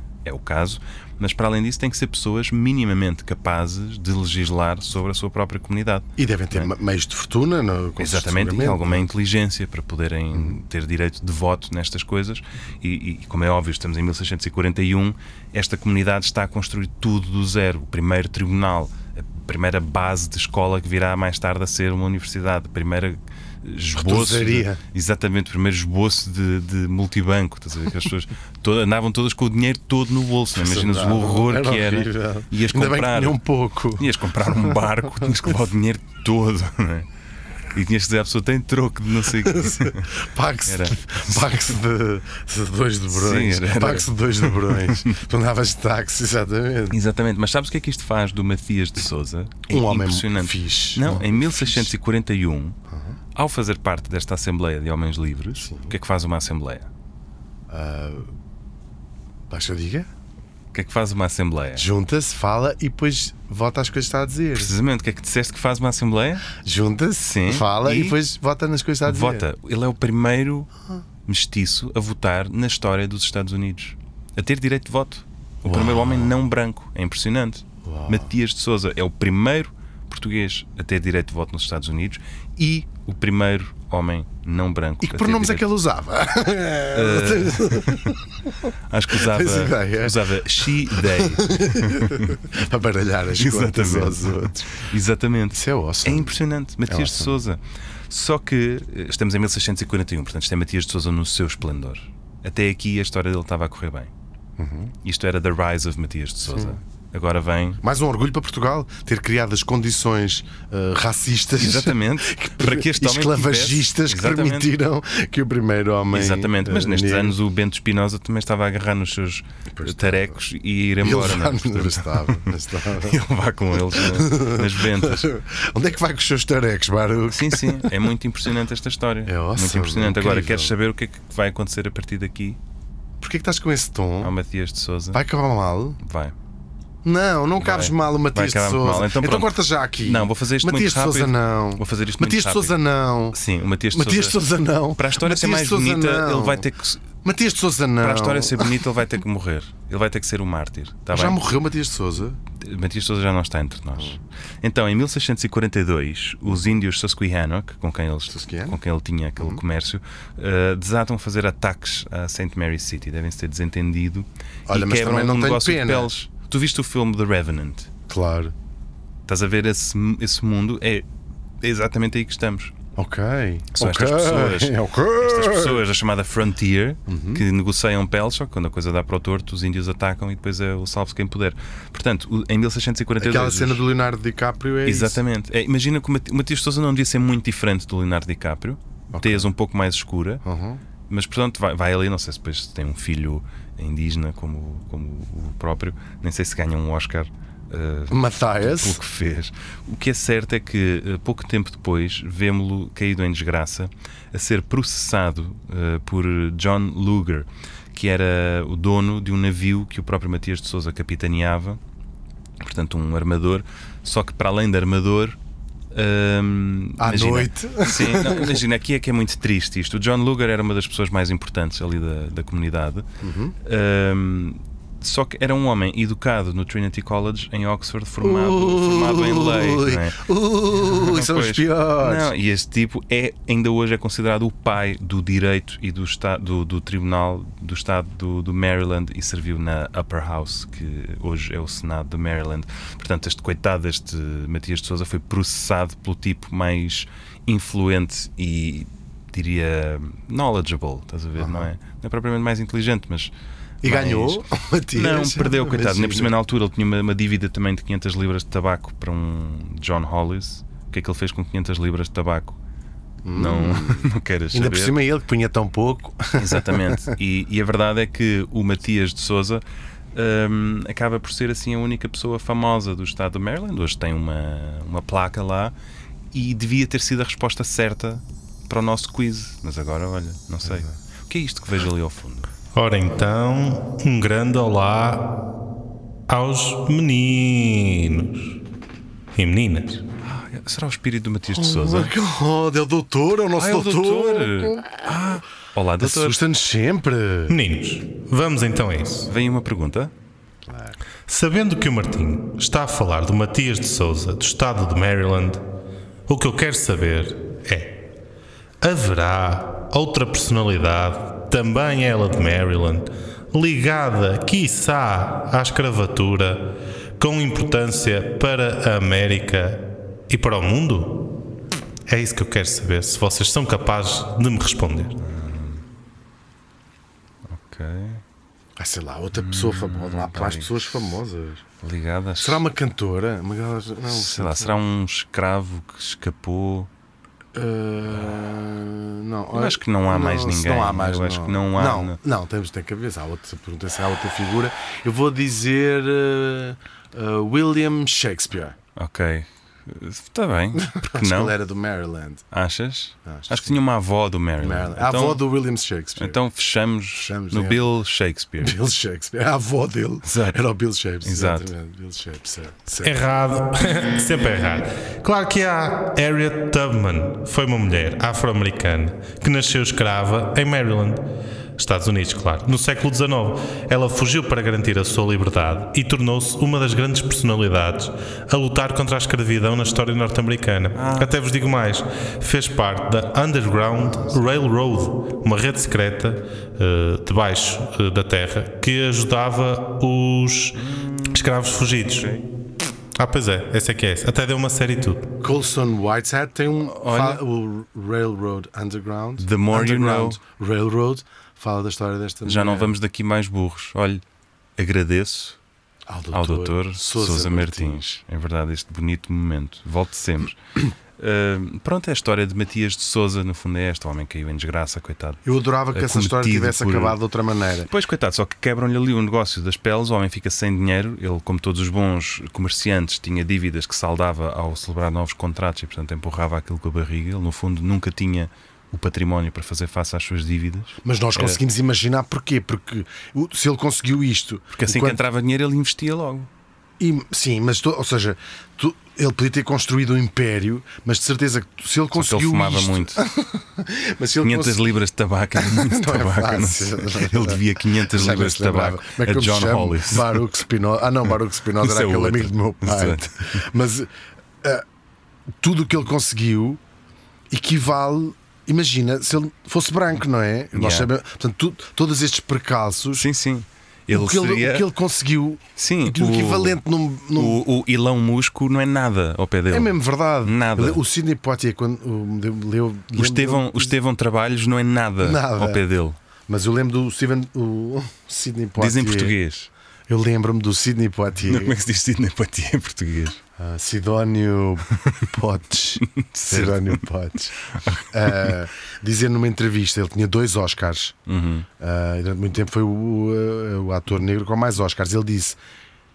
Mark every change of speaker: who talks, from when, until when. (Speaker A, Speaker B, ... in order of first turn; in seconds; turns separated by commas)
Speaker A: 0.2-6.7, Speaker B: 6.2-9.1, Speaker A: 8.0-33.4, Speaker B: 23.9-24.8, Speaker B: 30.6-35.3, Speaker A: 34.0-37.1, Speaker A: 37.7-40.1, Speaker B: 39.4-47.0, Speaker A: 40.6-41.5, Speaker A: 43.1-45.2, Speaker A: 46.9-52.8, Speaker B: 49.7-51.9, Speaker B: 52.9-53.2, Speaker A: 53.3-56.9, Speaker B: 55.6-55.9, Speaker B: 57.7-58.3, Speaker B: 59.5-60.1, Speaker A: 60.7-61.9, Speaker B: 61.8-64.7, Speaker A: 64.5-66.5, Speaker B: 66.6-69.4, Speaker A: 67.2-68.2, Speaker A: 69.0-70.7, Speaker A: 71.2-85.6, Speaker B: 75.7-76.3, Speaker B: 77.8-78.3, Speaker B: 85.0-94.8, Speaker A: 86.9-88.2, Speaker A: 88.9-92.4, Speaker A: 93.3-104.1, Speaker B: 95.5-97.4, Speaker B: 104.6-104.9, Speaker A: 105.0-107.8, Speaker B: 106.5-106.8, Speaker B: 107.8-117.3, Speaker A: 111.5-114.7, Speaker A: 116.1-125.3, Speaker B: 119.7-120.3, Speaker B: 121.0-123.2, Speaker B: 123.8-127.9, Speaker A: 127.3-132.6, Speaker B: 129.2-130.7, Speaker B: 133.2-134.3, Speaker A: 134.2-135.2, Speaker B: 135.1-136.0, Speaker A: 136.0-136.3, Speaker B: 137.0-143.4, Speaker A: 137.6-142.7, Speaker A: 143.3-144.4, Speaker B: 143.9-146.7, Speaker A: 144.9-147.1, Speaker B: 147.2-148.8, Speaker A: 148.0-151.4, Speaker B: 151.1-152.4, Speaker A: 152.6-167.9, Speaker B: 158.3-158.8, Speaker B: 164.7-166.1, Speaker B: 168.1-168.5, Speaker A: 169.2-171.1, Speaker A: 171.6-172.7, Speaker B: 172.9-175.8, Speaker A: 173.7-183.8, Speaker B: 177.1-177.4, Speaker B: 183.2-185.2, Speaker A: 184.8-190.4, Speaker B: 189.1-189.5, Speaker B: 190.4-190.8, Speaker A: 191.1-211.8, Speaker B: 198.1-199.0, Speaker A: 212.6-215.4, Speaker A: 215.9-223.1, Speaker B: 217.0-218.6, Speaker B: 223.2-223.5, Speaker A: 223.6-230.2, Speaker B: 228.2-232.3, Speaker A: 230.7-253.3, Speaker B: 251.4-251.7, Speaker B: 253.8-256.3, Speaker A: 253.8-262.6, Speaker B: 263.2-267.1, Speaker A: 263.3-265.0, Speaker A: 266.3-275.7, Speaker A: 276.3-282.5, Speaker C: 282.7-285.4, Speaker C: 286.3-288.5, Speaker C: 289.3-290.0, Speaker A: 290.2-292.1, Speaker B: 291.5-295.1, Speaker A: 293.6-296.4, Speaker B: 296.0-297.6, Speaker C: 297.5-299.3, Speaker A: 299.3-300.1, Speaker B: 300.6-301.0, Speaker C: 301.3-305.6, Speaker C: 306.3-308.0, Speaker C: 308.8-321.3, Speaker C: 322.1-325.2, Speaker A: 325.2-325.8, Speaker A: 327.4-328.2, Speaker B: 328.8-331.6, Speaker A: 329.3-330.7, Speaker A: 331.8-332.6, Speaker B: 332.4-334.7, Speaker A: 334.1-336.9, Speaker B: 337.5-348.8, Speaker A: 339.5-342.2, Speaker A: 348.9-351.5, Speaker B: 350.8-352.4, Speaker A: 352.5-355.4, Speaker B: 353.2-353.8, Speaker B: 354.6-356.4, Speaker A: 356.2-358.8, Speaker B: 357.1-357.9, Speaker B: 358.6-363.2, Speaker A: 360.2-360.6, Speaker A: 361.2-361.7, Speaker C: 363.0-371.2, Speaker C: 371.8-390.8, Speaker A: 380.9-381.4, Speaker A: 390.7-392.4, Speaker C: 391.3-392.4, Speaker C: 393.2-395.3, Speaker B: 395.4-402.9, Speaker A: 396.9-397.4, Speaker A: 399.4-400.4, Speaker A: 402.4-404.2, Speaker A: 404.8-405.6, Speaker B: 406.1-408.1, Speaker A: 406.3-417.2, Speaker B: 415.4-417.9, Speaker A: 417.9-431.6, Speaker B: 431.0-435.2, Speaker A: 434.7-436.5, Speaker B: 437.0-444.9, Speaker A: 442.1-443.2, Speaker A: 444.4-450.4, Speaker B: 445.6-454.1, Speaker A: 451.8-453.6, Speaker B: 455.6-456.8, Speaker B: 457.5-463.3, Speaker A: 460.7-461.1, Speaker A: 463.2-464.9, Speaker B: 464.1-467.6, Speaker A: 465.8-466.8, Speaker A: 467.3-471.0, Speaker B: 469.7-473.9, Speaker A: 473.1-476.2, Speaker B: 475.2-475.8, Speaker B: 476.5-479.3, Speaker A: 478.8-479.7, Speaker B: 480.1-481.8, Speaker A: 481.4-483.4, Speaker B: 483.6-487.5, Speaker A: 486.1-487.0, Speaker A: 487.7-488.6, Speaker B: 488.1-491.1, Speaker A: 491.3-491.7, Speaker B: 491.8-495.6